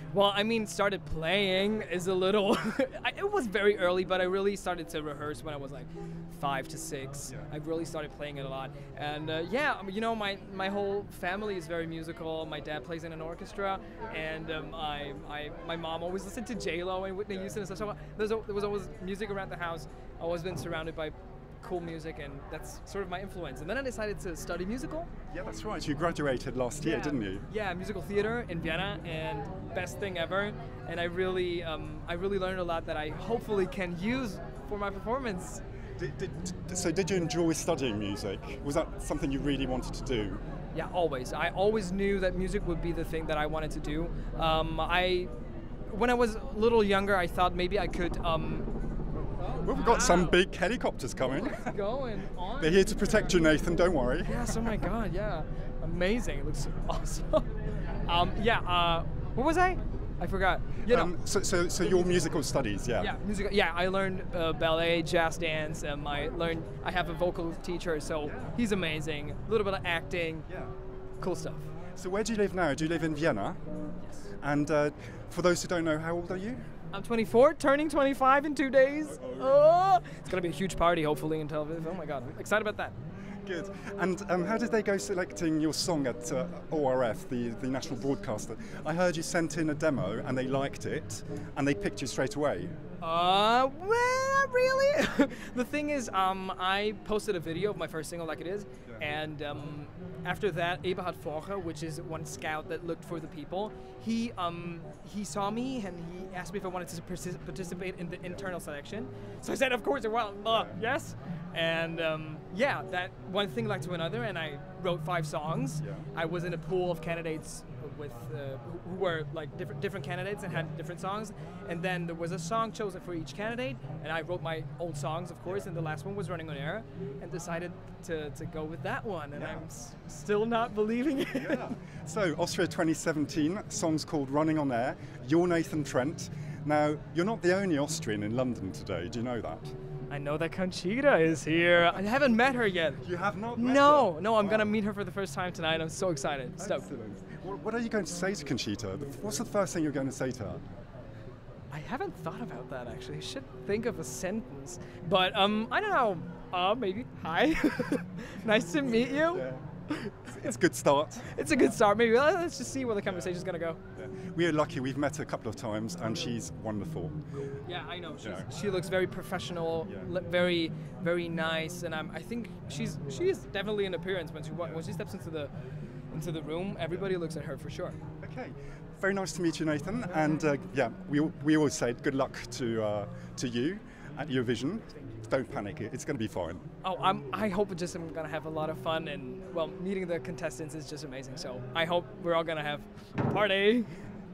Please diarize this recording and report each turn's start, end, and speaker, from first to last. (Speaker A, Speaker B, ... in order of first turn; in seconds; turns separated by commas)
Speaker A: 0.1-25.1, Speaker B: 25.3-27.4, Speaker A: 26.8-35.6, Speaker B: 36.0-40.4, Speaker A: 40.7-45.3, Speaker A: 45.9-48.7, Speaker A: 49.5-50.4, Speaker B: 49.5-51.7, Speaker A: 51.3-53.5, Speaker B: 52.6-54.7, Speaker A: 54.2-57.5, Speaker A: 58.0-61.1, Speaker B: 60.9-63.1, Speaker A: 63.0-70.5, Speaker B: 68.2-68.6, Speaker B: 70.5-70.7, Speaker A: 71.2-71.7, Speaker B: 72.0-73.6, Speaker B: 74.4-76.7, Speaker A: 76.9-82.9, Speaker B: 79.1-79.6, Speaker B: 83.4-92.7, Speaker A: 93.0-131.7, Speaker B: 110.5-110.8, Speaker B: 129.3-129.7, Speaker B: 131.3-139.7, Speaker A: 140.1-143.0, Speaker B: 141.7-142.0, Speaker B: 143.0-144.8, Speaker A: 143.6-146.9, Speaker B: 146.6-150.6, Speaker A: 151.7-160.5, Speaker B: 158.8-159.6, Speaker B: 160.3-161.3, Speaker A: 161.2-163.8, Speaker B: 163.1-163.4, Speaker B: 163.9-167.3, Speaker A: 167.6-175.5, Speaker B: 168.2-168.5, Speaker B: 174.6-174.8, Speaker A: 176.1-178.0, Speaker B: 178.2-186.6, Speaker A: 186.8-193.9